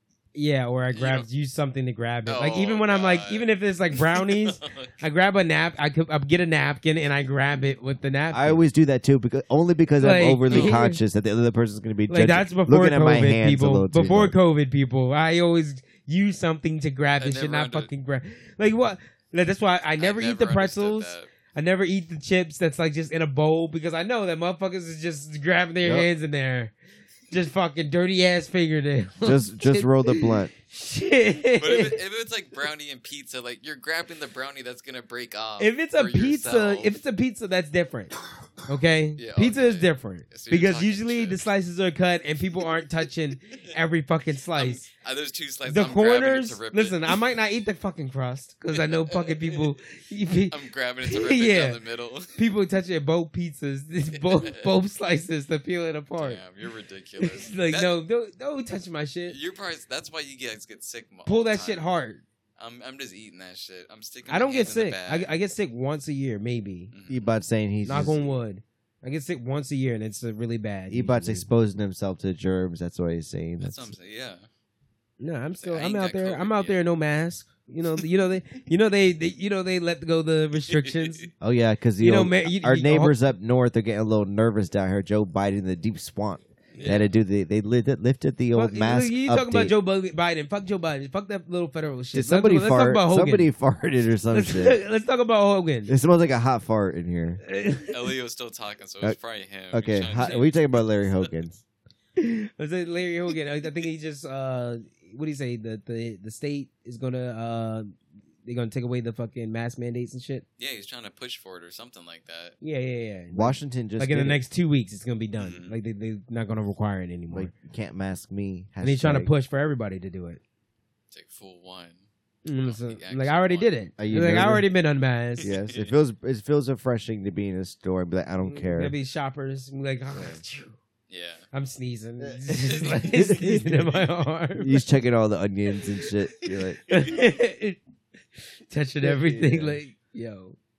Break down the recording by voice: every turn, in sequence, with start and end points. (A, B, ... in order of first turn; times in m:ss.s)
0:00.3-0:08.6 A
0:00.9-0:01.3 B
0:02.3-0:04.9 B
0:08.3-0:14.4 C
0:10.0-0:11.0 A
0:10.5-0:10.8 B
0:12.1-0:26.7 A
0:17.2-0:17.9 B
0:20.0-0:21.3 B
0:25.8-0:26.1 C
0:27.3-0:32.0 A
0:29.2-0:30.5 C
0:31.6-0:36.9 B
0:35.6-0:38.1 A
0:38.7-0:44.8 A
0:39.2-0:41.4 B
0:44.6-0:47.2 B
0:45.7-0:51.8 A
0:48.7-0:49.6 B
0:50.5-0:52.4 B
0:52.4-0:56.4 A
0:54.1-0:54.7 B
0:56.2-0:58.0 B
0:57.2-0:59.4 A
0:59.3-1:01.9 B
1:01.3-1:02.2 A
1:02.6-1:05.3 B
1:04.3-1:06.9 A
1:06.9-1:07.4 B
1:07.1-1:08.2 C
1:07.8-1:11.5 A
1:10.9-1:13.9 C
1:13.6-1:14.5 B
1:15.2-1:21.3 A
1:15.6-1:16.8 B
1:20.7-1:21.2 B
1:21.4-1:29.7 C
1:22.0-1:23.2 A
1:26.7-1:27.1 B
1:28.5-1:33.5 A
1:32.1-1:34.8 C
1:34.3-1:35.9 A
1:35.9-1:37.4 C
1:37.4-1:38.1 A
1:37.9-1:41.3 B
1:39.7-1:41.6 C
1:42.2-1:50.4 A
1:50.6-1:52.6 B
1:52.6-1:57.5 A
1:53.3-1:54.4 C
1:55.4-1:55.7 B
1:57.3-1:59.3 C
1:58.8-2:00.4 A
2:01.1-2:02.0 B
2:02.4-2:05.5 A
2:02.6-2:03.8 B
2:04.0-2:04.6 C
2:05.4-2:08.9 C
2:05.4-2:05.9 B
2:08.4-2:10.8 A
2:11.1-2:11.5 B
2:11.5-2:14.8 A
2:13.0-2:13.8 C
2:14.6-2:16.8 C
2:16.9-2:17.8 A
2:18.7-2:20.6 A
2:19.0-2:19.8 C